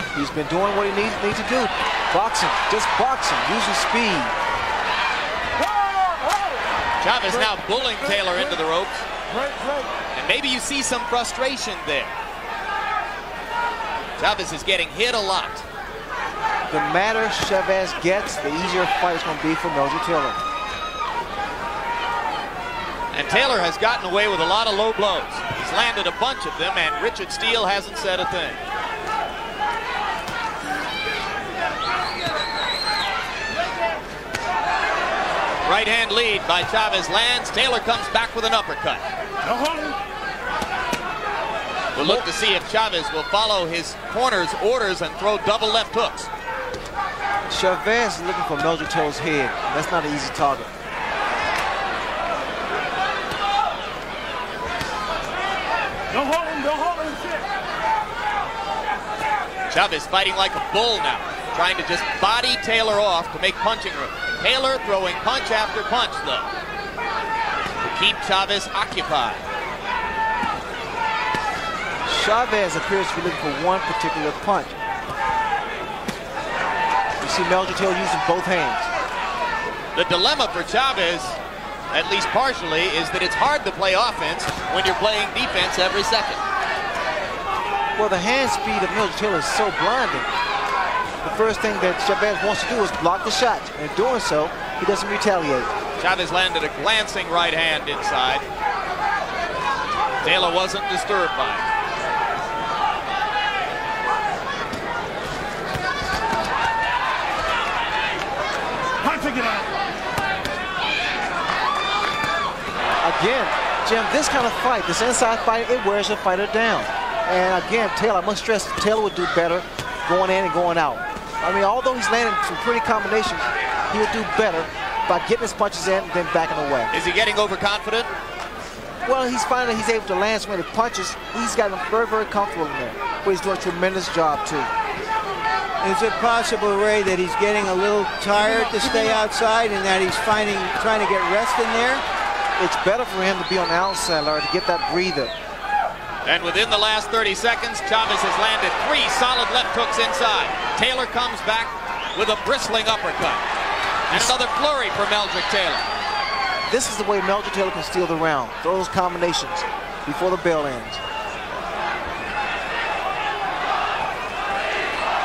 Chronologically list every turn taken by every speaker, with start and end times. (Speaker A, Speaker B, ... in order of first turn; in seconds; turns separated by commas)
Speaker A: 0.1-4.3, Speaker B: 5.6-6.6, Speaker C: 7.0-9.1, Speaker B: 7.3-8.6, Speaker B: 9.3-9.9, Speaker C: 10.1-12.1, Speaker C: 14.2-15.6, Speaker A: 16.7-20.4, Speaker C: 23.1-28.6, Speaker C: 35.6-39.0, Speaker B: 39.4-40.0, Speaker C: 41.9-46.3, Speaker A: 42.0-42.3, Speaker A: 47.5-50.7, Speaker B: 56.1-57.4, Speaker C: 59.7-66.5, Speaker C: 67.8-69.4, Speaker A: 72.0-74.8, Speaker A: 77.2-78.9, Speaker C: 79.9-81.4, Speaker C: 81.9-86.4, Speaker A: 88.0-90.3, Speaker A: 91.2-95.7, Speaker C: 96.0-98.4, Speaker C: 100.2-101.6, Speaker B: 109.0-109.7, Speaker A: 113.0-126.9, Speaker C: 126.9-128.1, Speaker A: 129.0-134.7, Speaker D: 135.8-142.0, Speaker B: 138.3-139.2, Speaker A: 142.6-145.3, Speaker C: 146.2-153.4, Speaker C: 154.1-155.8, Speaker A: 156.7-161.0